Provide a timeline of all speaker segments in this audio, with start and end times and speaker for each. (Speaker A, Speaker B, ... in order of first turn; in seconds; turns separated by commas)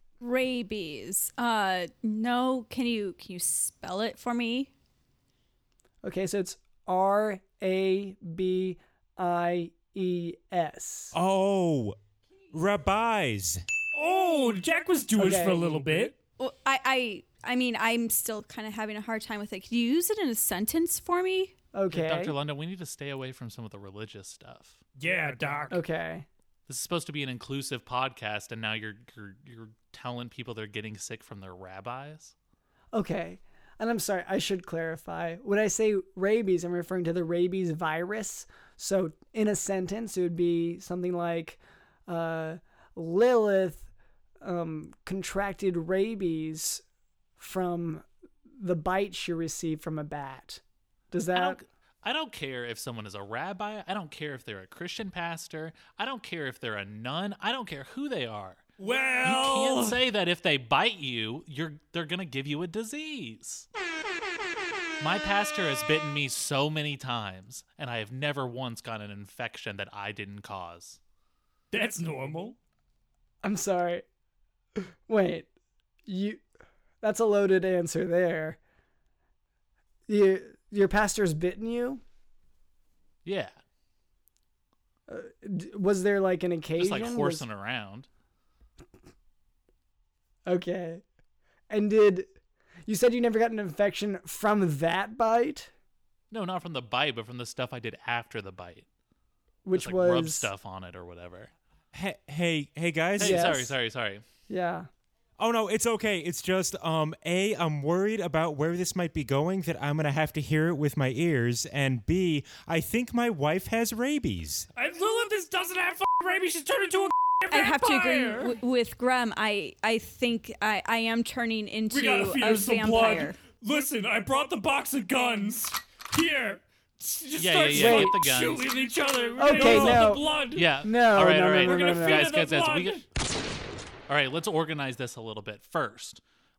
Speaker A: 0.2-4.7, Speaker B: 6.0-11.1, Speaker C: 11.1-12.0, Speaker C: 12.5-13.6, Speaker D: 13.9-16.2, Speaker B: 15.2-15.7, Speaker A: 16.4-21.6, Speaker B: 21.7-22.3, Speaker E: 21.9-24.8, Speaker D: 25.0-25.8, Speaker B: 25.7-26.3, Speaker E: 26.7-32.3, Speaker B: 32.9-43.9, Speaker B: 44.4-46.8, Speaker B: 47.4-48.0, Speaker B: 48.6-50.6, Speaker B: 51.1-51.6, Speaker E: 51.3-58.7, Speaker D: 58.8-60.0, Speaker E: 59.2-63.7, Speaker E: 65.0-71.0, Speaker D: 71.7-72.6, Speaker B: 73.4-74.0, Speaker B: 75.1-75.5, Speaker B: 76.1-76.4, Speaker B: 77.0-78.6, Speaker B: 80.1-82.0, Speaker E: 83.2-83.6, Speaker B: 85.1-87.5, Speaker E: 86.8-88.1, Speaker B: 90.5-91.0, Speaker B: 91.7-92.3, Speaker B: 92.9-95.7, Speaker E: 96.3-98.9, Speaker B: 99.6-100.5, Speaker E: 99.7-101.5, Speaker C: 101.9-103.6, Speaker E: 103.2-104.2, Speaker B: 103.2-103.7, Speaker B: 104.5-104.9, Speaker C: 105.4-114.7, Speaker D: 114.8-118.6, Speaker A: 117.5-123.4, Speaker D: 121.9-130.8, Speaker E: 127.4-128.7, Speaker B: 127.7-128.2, Speaker B: 129.4-130.3, Speaker E: 129.5-133.0, Speaker B: 130.8-132.3, Speaker D: 131.5-133.0, Speaker E: 134.1-136.2